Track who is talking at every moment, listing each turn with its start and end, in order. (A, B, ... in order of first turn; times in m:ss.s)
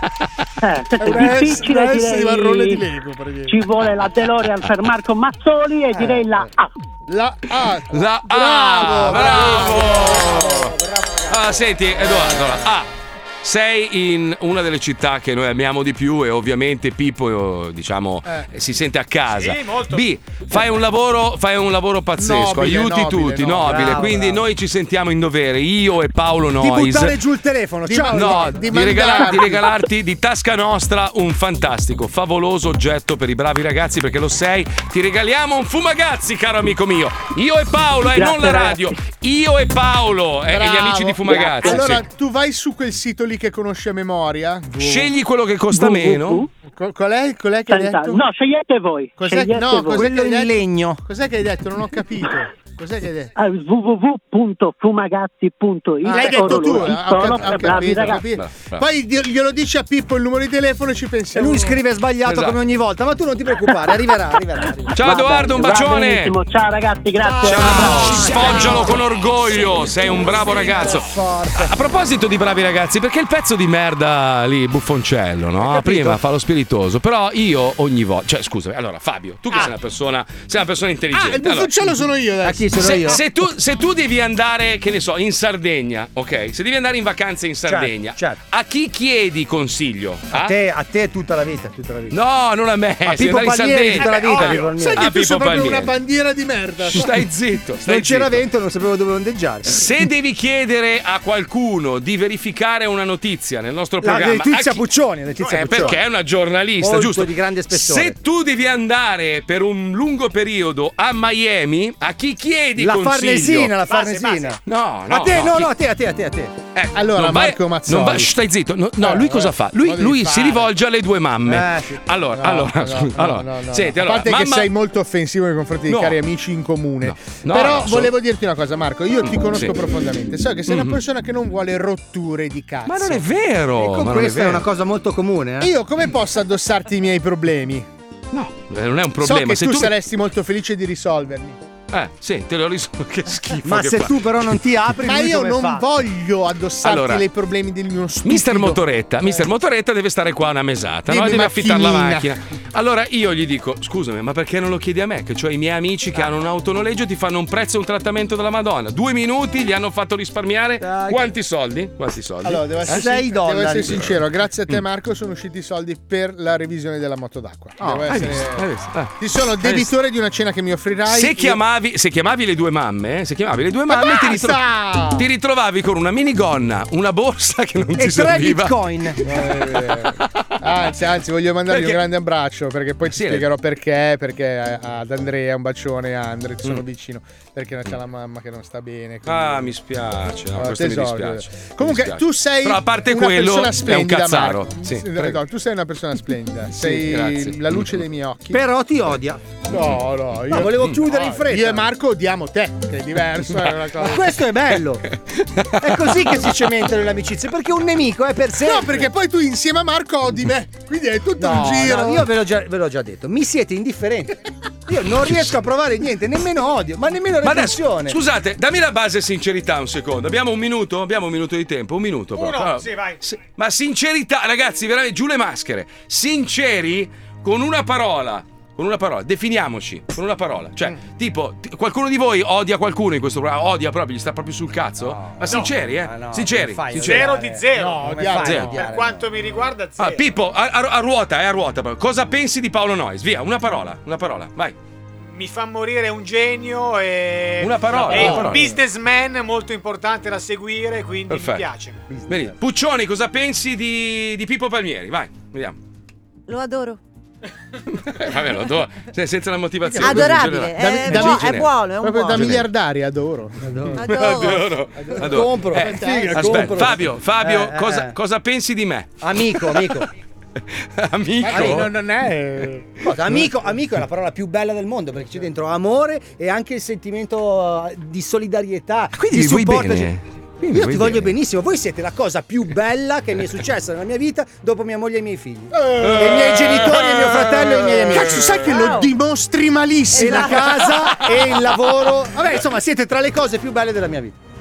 0:00.6-0:02.8 A
0:01.0-0:03.6 B
0:03.5-0:06.7 A
0:05.9-0:06.3 C
0:07.1-0:10.5 B
0:07.9-0:10.7 D
0:08.9-0:12.4 C
0:11.3-0:12.9 D
0:13.4-0:27.2 D
0:19.3-0:20.1 E
0:22.2-0:24.2 B
0:23.6-0:24.4 C
0:26.6-0:29.5 C
0:27.9-0:29.7 B
0:28.1-0:42.0 D
0:38.1-0:38.9 A
0:40.5-0:45.1 B
0:44.8-0:46.4 D
0:45.7-0:46.5 A
0:46.7-0:48.2 B
0:47.7-0:50.1 A
0:49.2-0:53.3 B
0:49.9-0:51.0 C
0:53.4-0:58.2 A
0:56.0-1:01.8 B
0:57.4-0:58.8 D
1:01.3-1:05.6 C
1:02.2-1:02.6 D
1:04.9-1:06.4 D
1:05.0-1:08.1 A
1:07.2-1:11.8 C
1:07.4-1:21.7 D
1:07.6-1:08.7 B
1:15.6-1:16.2 C
1:21.1-1:23.2 B
1:22.4-1:23.2 C
1:22.8-1:30.5 D
1:27.7-1:28.4 C
1:30.3-1:32.2 C
1:32.1-1:35.9 D
1:33.0-1:35.1 C
1:34.0-1:34.7 E
1:34.4-1:37.1 B
1:36.8-1:38.4 D
1:37.8-1:39.9 C
1:39.6-1:44.8 D
1:44.0-1:46.0 C
1:45.4-1:53.7 D
1:45.4-1:45.9 E
1:46.8-1:48.2 C
1:52.8-1:56.5 C
1:53.8-1:54.6 E
1:54.6-1:55.7 D
1:56.7-2:04.7 D
1:56.9-1:58.3 B
1:59.0-2:00.7 B
2:01.4-2:02.0 C
2:02.4-2:13.2 B
2:05.9-2:06.2 D
2:07.0-2:08.1 D
2:09.2-2:09.7 D
2:10.7-2:11.0 D
2:12.8-2:14.6 D
2:13.8-2:15.7 C
2:15.6-2:17.9 B
2:18.3-2:19.9 D
2:19.2-2:21.6 B
2:21.9-2:24.2 D
2:23.6-2:25.8 C
2:25.0-2:29.4 B
2:26.8-2:27.2 D
2:28.2-2:43.1 D
2:31.1-2:32.3 B
2:40.8-2:41.3 C
2:42.4-2:48.6 B
2:42.9-2:44.1 C
2:47.8-2:48.2 C
2:48.1-2:49.9 D
2:49.2-2:51.6 B
2:51.1-2:54.6 D
2:53.9-2:55.3 B
2:55.1-2:58.8 D
2:58.0-2:59.2 C
2:59.2-3:09.7 B
3:01.7-3:02.0 D
3:03.1-3:03.5 D
3:09.2-3:15.4 D
3:10.5-3:18.6 B
3:16.8-3:18.0 D
3:18.5-3:19.4 C
3:19.7-3:24.3 B
3:20.5-3:21.9 C
3:24.0-3:25.0 C
3:25.6-3:26.3 D
3:25.8-3:29.1 C
3:28.6-3:32.3 B
3:31.4-3:38.2 C
3:37.4-3:57.3 D
3:42.3-3:43.2 E
3:55.0-3:59.3 C
3:55.5-3:55.7 E
3:56.9-4:00.3 E
3:57.7-3:58.8 B
3:58.4-3:58.7 D
4:00.0-4:04.7 D
4:05.2-4:12.0 E
4:07.6-4:08.7 D
4:08.1-4:08.8 C
4:08.1-4:08.5 B
4:11.3-4:11.6 D
4:12.1-4:12.5 C
4:12.3-4:15.8 D
4:16.5-4:17.0 F
4:18.0-4:21.7 D
4:20.0-4:22.6 F
4:20.0-4:23.6 B
4:22.3-4:22.6 D
4:23.6-4:28.1 C
4:24.0-4:24.6 F
4:24.0-4:30.0 D
4:25.8-4:26.9 B
4:29.2-4:30.1 C
4:31.0-4:31.9 D
4:31.4-4:33.0 B
4:31.4-4:31.9 C
4:33.0-4:40.1 C
4:39.2-4:41.3 D
4:40.6-4:48.7 C
4:46.0-4:46.7 B
4:46.0-4:48.8 D
4:48.0-4:51.3 B
4:50.1-4:54.3 C
4:50.1-4:50.7 F